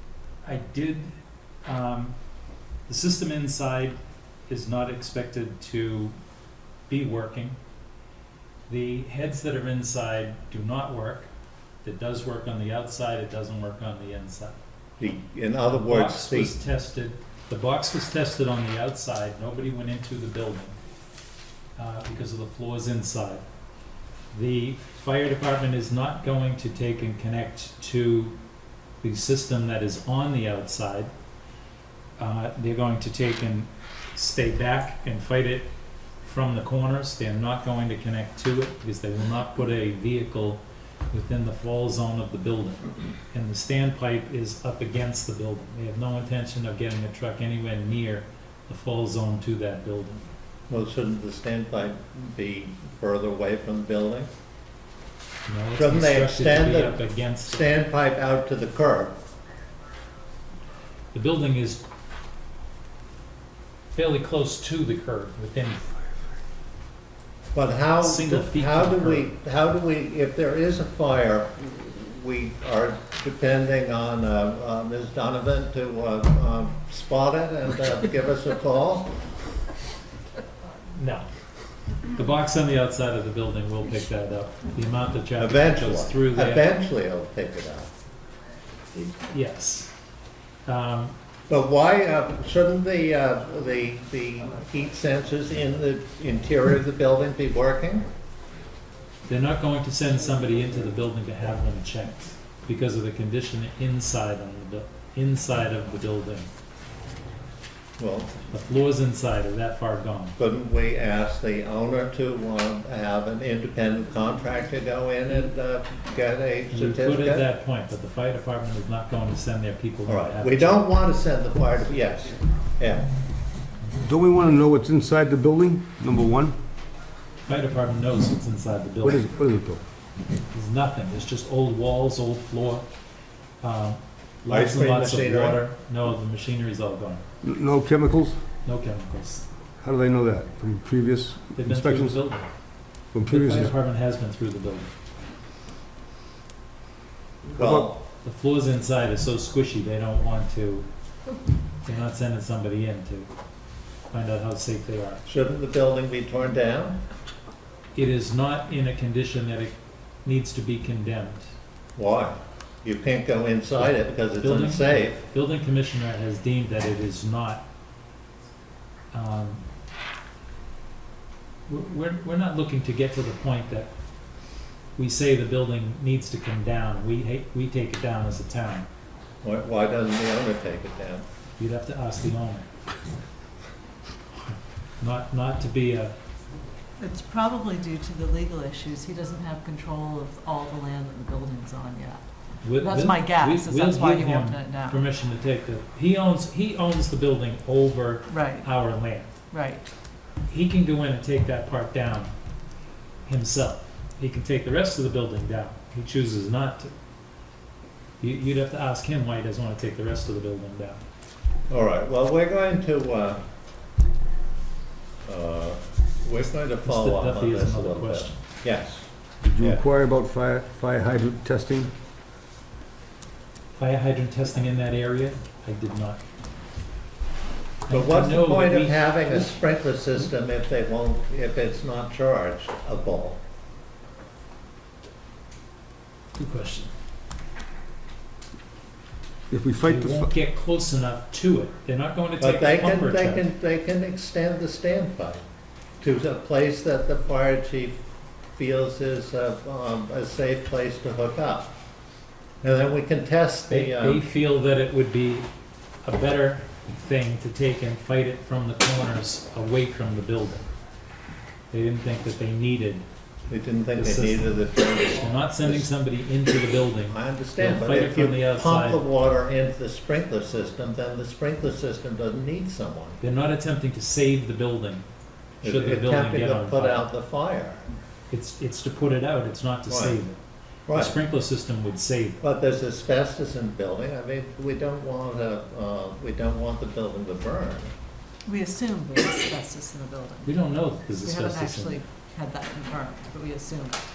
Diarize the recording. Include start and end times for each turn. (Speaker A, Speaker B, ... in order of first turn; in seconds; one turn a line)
Speaker A: 0.4-1.1
Speaker A: 1.6-2.1
Speaker A: 2.9-4.0
Speaker A: 4.5-6.1
Speaker A: 6.9-7.6
Speaker A: 8.7-11.3
Speaker A: 11.8-14.6
Speaker B: 15.0-16.5
Speaker A: 15.7-20.7
Speaker A: 21.8-23.4
Speaker A: 24.3-28.4
Speaker A: 29.0-31.1
Speaker A: 32.2-35.7
Speaker A: 36.2-50.2
Speaker B: 50.7-54.3
Speaker A: 55.5-57.8
Speaker B: 55.8-59.2
Speaker A: 61.1-61.8
Speaker A: 63.9-65.9
Speaker B: 67.5-79.1
Speaker A: 68.0-69.3
Speaker A: 80.9-81.3
Speaker A: 82.1-86.7
Speaker B: 85.4-87.9
Speaker A: 88.9-89.9
Speaker A: 90.7-91.1
Speaker B: 91.5-98.1
Speaker A: 99.3-106.5
Speaker B: 108.0-108.3
Speaker A: 108.5-110.4
Speaker B: 110.4-117.5
Speaker A: 116.7-120.8
Speaker B: 120.1-123.1
Speaker C: 124.0-126.5
Speaker A: 127.5-129.2
Speaker C: 129.0-129.8
Speaker A: 130.5-132.8
Speaker A: 133.6-137.2
Speaker B: 134.5-135.6
Speaker C: 137.4-138.4
Speaker A: 138.6-139.5
Speaker C: 139.8-142.2
Speaker A: 141.5-142.5
Speaker C: 143.1-143.7
Speaker A: 143.2-144.9
Speaker C: 147.5-147.9
Speaker B: 147.6-148.0
Speaker A: 148.2-150.9
Speaker A: 151.8-153.3
Speaker A: 154.1-155.2
Speaker B: 155.2-157.0
Speaker A: 157.9-161.4
Speaker B: 161.9-165.2
Speaker A: 163.8-167.7
Speaker A: 169.1-169.6
Speaker A: 171.7-173.9
Speaker A: 174.9-178.9
Speaker B: 179.4-181.2
Speaker A: 181.6-182.7
Speaker A: 184.4-186.1
Speaker D: 187.0-192.2
Speaker A: 192.6-199.3
Speaker D: 192.8-195.0
Speaker D: 198.3-198.7
Speaker D: 199.5-199.8
Speaker A: 200.5-202.3
Speaker A: 203.2-206.9
Speaker A: 208.2-211.0
Speaker B: 211.7-213.4
Speaker B: 215.2-219.1
Speaker A: 216.8-218.4
Speaker C: 219.4-221.9
Speaker A: 223.8-226.2
Speaker A: 227.8-229.6
Speaker B: 227.9-233.4
Speaker A: 236.4-236.9
Speaker C: 239.5-240.3
Speaker A: 239.8-243.5
Speaker B: 242.4-245.4
Speaker B: 246.0-248.0
Speaker B: 248.5-251.8
Speaker B: 252.6-254.2
Speaker A: 253.7-255.5
Speaker A: 256.0-260.7
Speaker A: 261.7-263.1
Speaker B: 263.5-265.9
Speaker A: 264.0-264.5
Speaker A: 265.1-269.0
Speaker B: 267.1-273.2
Speaker A: 273.2-275.1
Speaker A: 275.6-277.1
Speaker B: 275.6-277.9
Speaker A: 278.3-280.4
Speaker B: 279.9-280.2
Speaker B: 280.9-281.1
Speaker A: 280.9-282.4
Speaker B: 282.4-287.9
Speaker D: 288.5-290.6
Speaker A: 290.4-292.0
Speaker D: 291.2-294.0